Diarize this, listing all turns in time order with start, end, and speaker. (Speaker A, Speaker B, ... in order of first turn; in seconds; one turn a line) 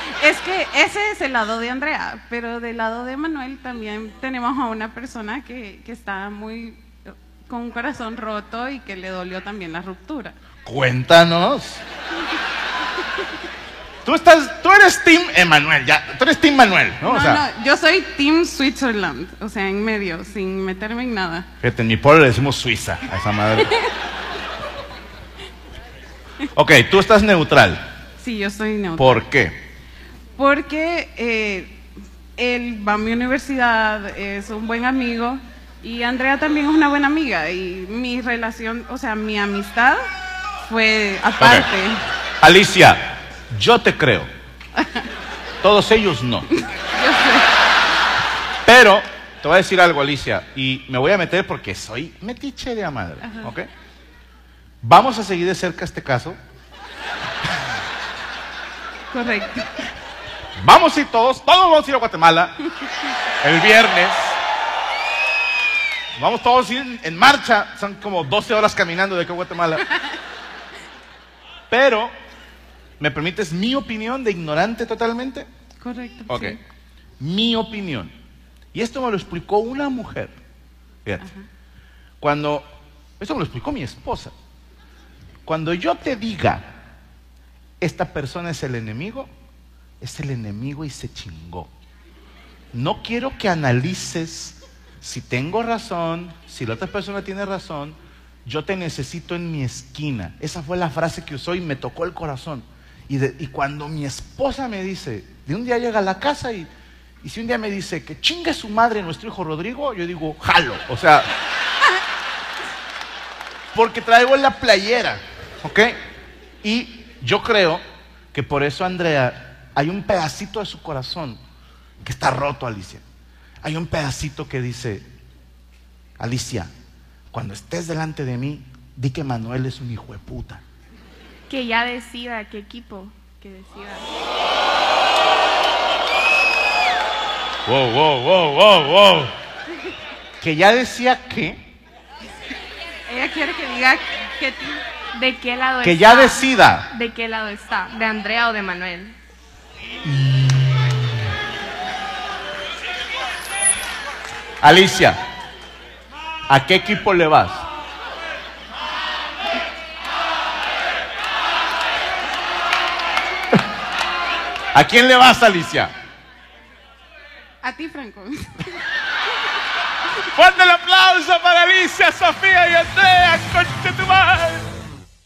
Speaker A: 0.2-6.8
Speaker A: 7.5-10.4
Speaker B: 10.6-11.8
Speaker B: 14.0-17.4
Speaker A: 17.0-21.5
Speaker B: 21.6-23.8
Speaker B: 26.5-27.8
Speaker A: 28.2-29.2
Speaker B: 29.0-29.6
Speaker A: 30.4-31.8
Speaker A: 32.4-40.0
Speaker A: 40.6-42.0
Speaker B: 41.4-41.7
Speaker B: 42.4-44.3
Speaker A: 44.8-45.1
Speaker B: 45.6-46.5
Speaker A: 46.6-47.5
Speaker B: 48.6-53.7
Speaker A: 53.2-53.5
Speaker B: 54.8-56.4
Speaker A: 59.1-59.9
Speaker B: 60.6-62.6
Speaker B: 63.4-64.4
Speaker B: 66.2-69.8
Speaker B: 71.7-72.1
Speaker B: 73.0-75.5
Speaker A: 75.8-76.6
Speaker B: 76.3-76.6
Speaker B: 77.2-78.1
Speaker B: 78.7-80.3
Speaker B: 82.2-82.7
Speaker B: 83.2-84.3
Speaker B: 85.4-86.7
Speaker B: 87.8-89.3
Speaker B: 90.0-91.7
Speaker B: 92.7-106.7
Speaker B: 107.2-111.3
Speaker B: 113.7-116.0
Speaker B: 116.6-117.8
Speaker B: 118.3-121.4
Speaker B: 122.0-123.0
Speaker B: 123.6-125.0
Speaker B: 126.2-126.7
Speaker B: 127.3-130.6
Speaker C: 131.5-134.1
Speaker B: 137.7-139.3
Speaker B: 140.4-141.7
Speaker A: 143.1-144.8
Speaker C: 145.1-149.2
Speaker B: 145.8-146.9
Speaker B: 150.0-151.2
Speaker B: 154.6-155.2
Speaker B: 156.5-157.6
Speaker B: 164.7-165.9
Speaker A: 167.6-168.8
Speaker B: 170.3-174.6